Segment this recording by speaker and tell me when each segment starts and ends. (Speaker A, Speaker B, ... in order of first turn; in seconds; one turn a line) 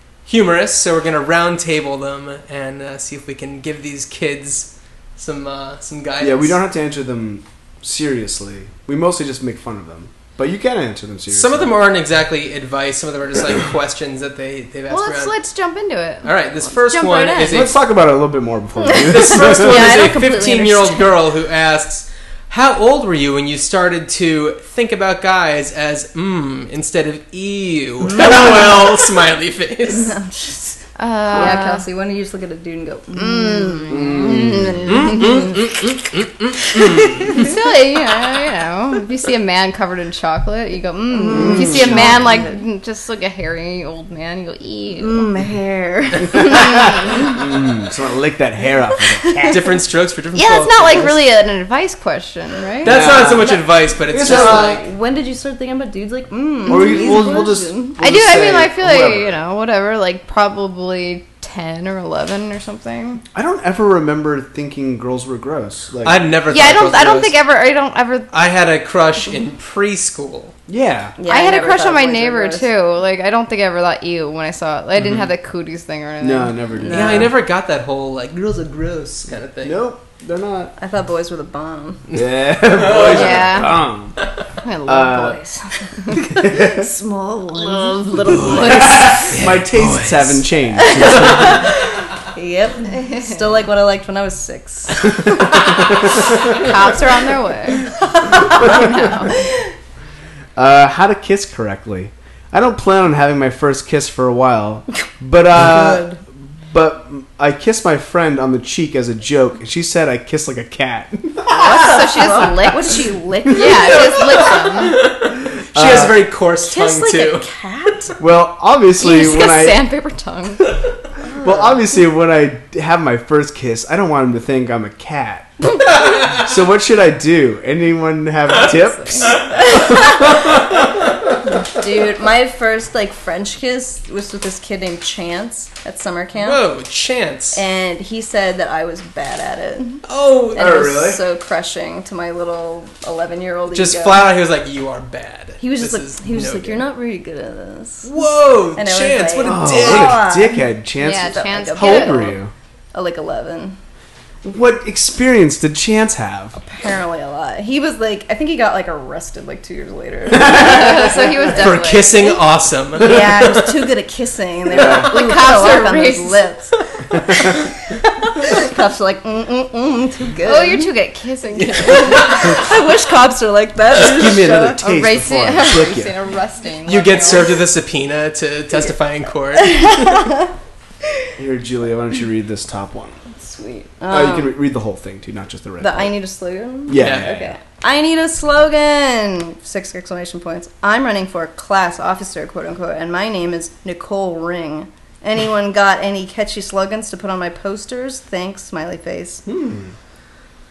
Speaker A: 0.2-6.6
Speaker B: 6.2-11.8
Speaker A: 11.3-15.3
Speaker C: 14.9-17.6
Speaker A: 16.2-17.8
Speaker B: 17.4-19.9
Speaker D: 18.8-21.1
Speaker A: 19.0-30.2
Speaker D: 28.1-28.8
Speaker D: 29.9-30.8
Speaker C: 30.9-31.8
Speaker D: 31.3-34.4
Speaker C: 33.1-35.5
Speaker B: 33.9-35.0
Speaker A: 34.9-37.5
Speaker D: 36.7-37.6
Speaker C: 37.3-45.3
Speaker D: 41.1-42.6
Speaker B: 41.3-42.2
Speaker D: 45.0-47.4
Speaker B: 46.4-49.7
Speaker C: 46.6-46.9
Speaker A: 49.5-51.2
Speaker C: 50.3-52.9
Speaker D: 52.8-53.6
Speaker A: 52.8-54.8
Speaker B: 52.8-54.8
Speaker D: 54.1-58.0
Speaker B: 56.6-59.4
Speaker C: 58.0-63.2
Speaker B: 63.3-66.3
Speaker A: 66.0-67.3
Speaker C: 66.5-68.3
Speaker A: 68.3-70.5
Speaker B: 70.7-71.2
Speaker D: 71.2-72.7
Speaker C: 71.3-76.5
Speaker B: 76.2-77.3
Speaker D: 76.8-77.3
Speaker A: 76.9-79.8
Speaker B: 79.6-80.7
Speaker D: 80.8-82.1
Speaker A: 82.1-83.7
Speaker B: 82.1-84.2
Speaker C: 83.0-83.8
Speaker C: 84.6-86.3
Speaker B: 84.8-85.4
Speaker D: 86.1-88.9
Speaker B: 86.3-86.9
Speaker C: 87.5-89.4
Speaker A: 88.6-90.5
Speaker B: 88.6-91.7
Speaker D: 90.8-96.2
Speaker C: 93.0-93.4
Speaker C: 96.5-99.4
Speaker D: 97.9-99.6
Speaker B: 98.6-98.9
Speaker B: 100.5-111.9
Speaker D: 105.5-106.2
Speaker D: 111.5-114.5
Speaker C: 111.6-115.0
Speaker A: 113.9-117.5
Speaker B: 115.7-116.2
Speaker D: 116.6-118.2
Speaker B: 118.2-119.9
Speaker C: 119.0-120.7
Speaker D: 121.2-121.8
Speaker B: 121.4-125.5
Speaker A: 126.0-126.3
Speaker B: 126.2-130.8
Speaker D: 128.6-130.6
Speaker D: 131.6-136.6
Speaker A: 136.4-137.6
Speaker D: 137.5-140.0
Speaker A: 140.1-140.9
Speaker D: 140.5-144.3
Speaker B: 140.6-141.2
Speaker A: 143.7-146.8
Speaker D: 145.6-148.1
Speaker A: 148.0-150.2
Speaker D: 148.7-152.4
Speaker B: 149.4-152.5
Speaker C: 151.0-152.3
Speaker D: 152.9-153.8
Speaker B: 154.4-156.6
Speaker D: 156.6-161.7
Speaker C: 160.3-162.4
Speaker A: 161.5-163.8
Speaker D: 163.0-170.9
Speaker B: 164.7-165.1
Speaker C: 164.7-166.4
Speaker C: 170.4-172.6
Speaker A: 171.6-172.6
Speaker D: 172.1-174.8
Speaker B: 173.9-176.1
Speaker C: 174.8-177.6
Speaker A: 176.8-180.3
Speaker D: 179.8-180.3
Speaker B: 181.4-183.2
Speaker D: 183.4-184.5
Speaker B: 184.1-186.1
Speaker D: 185.8-199.4
Speaker B: 186.9-187.6
Speaker A: 186.9-187.3
Speaker B: 199.5-199.9